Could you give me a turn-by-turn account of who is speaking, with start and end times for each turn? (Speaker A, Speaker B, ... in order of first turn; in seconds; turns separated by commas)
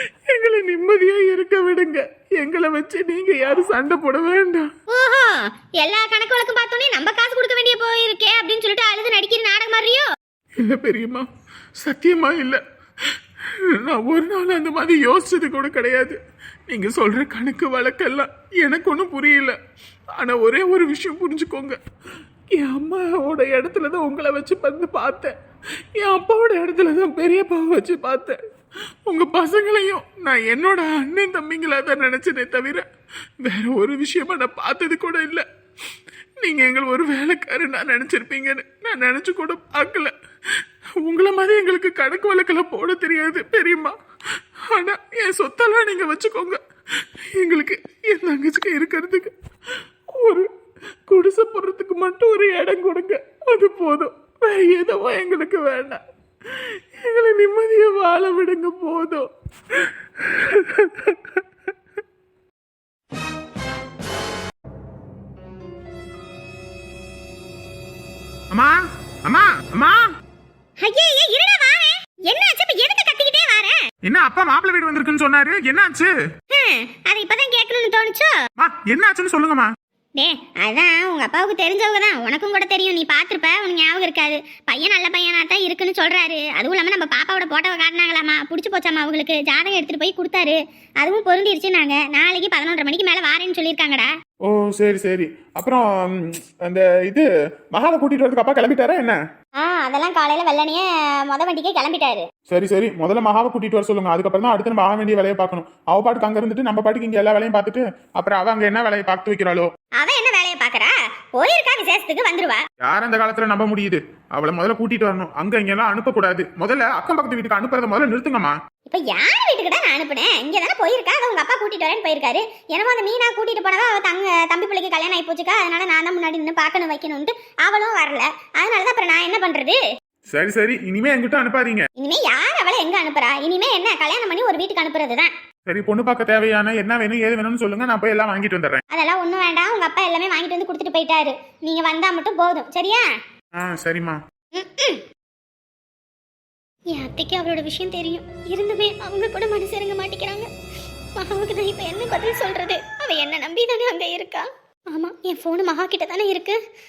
Speaker A: 0.3-4.7, Speaker B: 4.9-10.1, Speaker A: 10.6-11.3, Speaker A: 11.8-12.6, Speaker A: 13.8-16.2, Speaker A: 16.7-19.6, Speaker A: 20.1-21.8, Speaker A: 22.5-25.3, Speaker A: 25.9-28.4, Speaker A: 29.1-32.9, Speaker A: 33.4-35.4, Speaker A: 36.4-40.1, Speaker A: 41.0-43.9, Speaker A: 44.7-46.6, Speaker A: 47.4-49.3, Speaker A: 50.1-50.5, Speaker A: 51.1-56.0, Speaker A: 57.0-61.2, Speaker C: 68.5-70.0, Speaker B: 70.8-73.8, Speaker C: 74.0-76.1, Speaker B: 76.5-78.3, Speaker C: 78.6-79.7, Speaker B: 80.2-94.1, Speaker C: 94.5-99.2, Speaker B: 99.6-102.3, Speaker C: 102.5-109.7, Speaker B: 110.0-112.6, Speaker C: 112.8-118.5, Speaker B: 118.9-129.8, Speaker C: 130.3-131.9, Speaker B: 132.0-135.3, Speaker C: 135.7-138.8, Speaker B: 138.9-143.1, Speaker C: 143.6-144.2, Speaker B: 144.5-145.0, Speaker B: 146.9-150.5, Speaker B: 151.2-156.6